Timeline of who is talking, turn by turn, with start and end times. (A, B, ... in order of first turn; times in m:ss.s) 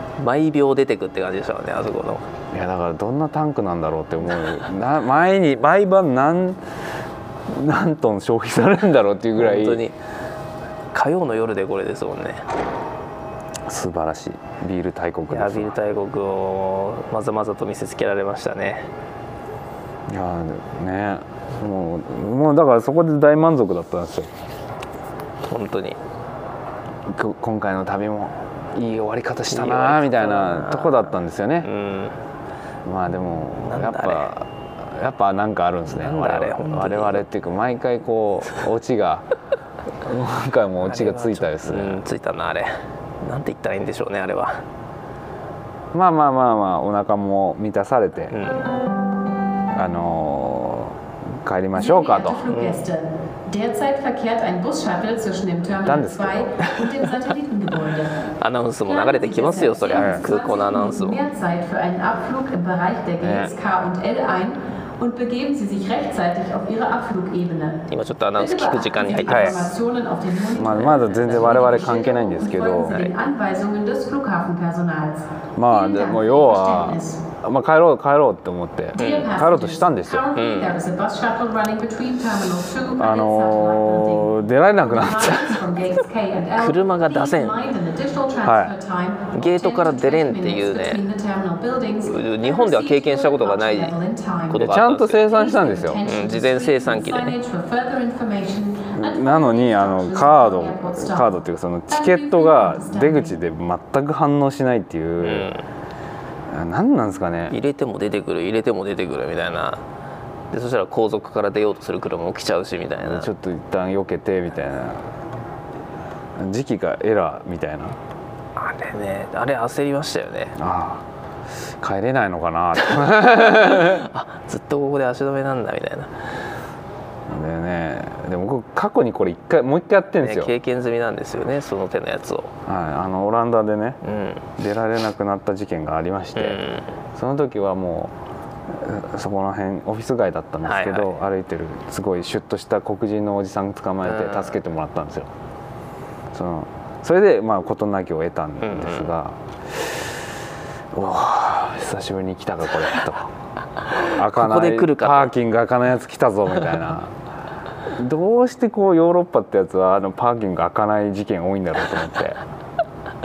0:00.2-0:02.2 A
0:02.5-0:06.6 B
0:07.5-0:09.8 B
0:09.4-0:10.0 A
0:10.9-0:12.5 A
0:13.7-0:15.8 B
0:15.3-0:18.9 A
0:20.1-0:24.3 B
0:25.5-0:26.0 A
0:27.1-0:31.7 B
0:29.5-0:32.2 A
0:32.8-0:39.3 B
0:33.6-0:34.3 A
0:35.9-0:37.2 A
0:40.0-0:42.0 B
0:40.8-0:44.6 A
0:45.9-0:48.3 B
0:48.3-0:48.7 A
0:49.7-0:52.5 B
0:51.8-0:58.2 C
0:52.5-0:52.8 A
0:55.8-0:56.5 B
0:56.6-0:57.1 A
0:58.4-1:01.2 A
0:58.9-1:07.8 C
0:59.9-1:00.3 B
1:03.2-1:03.5 B
1:07.9-1:09.7 A
1:08.4-1:17.2 C
1:09.3-1:09.7 B
1:10.5-1:13.1 B
1:10.8-1:11.7 A
1:15.6-1:20.2 B
1:19.0-1:43.4 C
1:19.0-1:19.3 A
1:20.4-1:20.8 A
1:23.0-1:25.6 B
1:26.5-1:27.6 A
1:28.4-1:28.7 B
1:29.3-1:31.0 A
1:32.0-1:33.9 A
1:34.5-1:35.2 A
1:34.6-1:36.0 B
1:36.0-1:37.4 A
1:39.0-1:45.5 B
1:45.2-1:45.6 A
1:46.5-1:47.6 B
1:47.5-1:49.8 A
1:50.5-1:53.3 A
1:53.0-1:55.1 B
1:56.4-1:58.0 B
1:58.6-2:00.6 A
2:00.6-2:01.0 B
2:01.8-2:04.1 B
2:03.2-2:06.1 A
2:07.3-2:10.5 B
2:10.2-2:12.5 A
2:12.7-2:14.0 B
2:14.0-2:14.4 A
2:14.6-2:16.6 B
2:16.4-2:16.9 A
2:17.2-2:18.2 B
2:18.7-2:25.3 B
2:20.6-2:21.1 A
2:24.0-2:24.6 A
2:26.3-2:30.1 B
2:28.6-2:29.1 A
2:30.9-2:33.3 B
2:34.0-2:35.3 A
2:34.1-2:37.2 B
2:37.9-2:42.4 B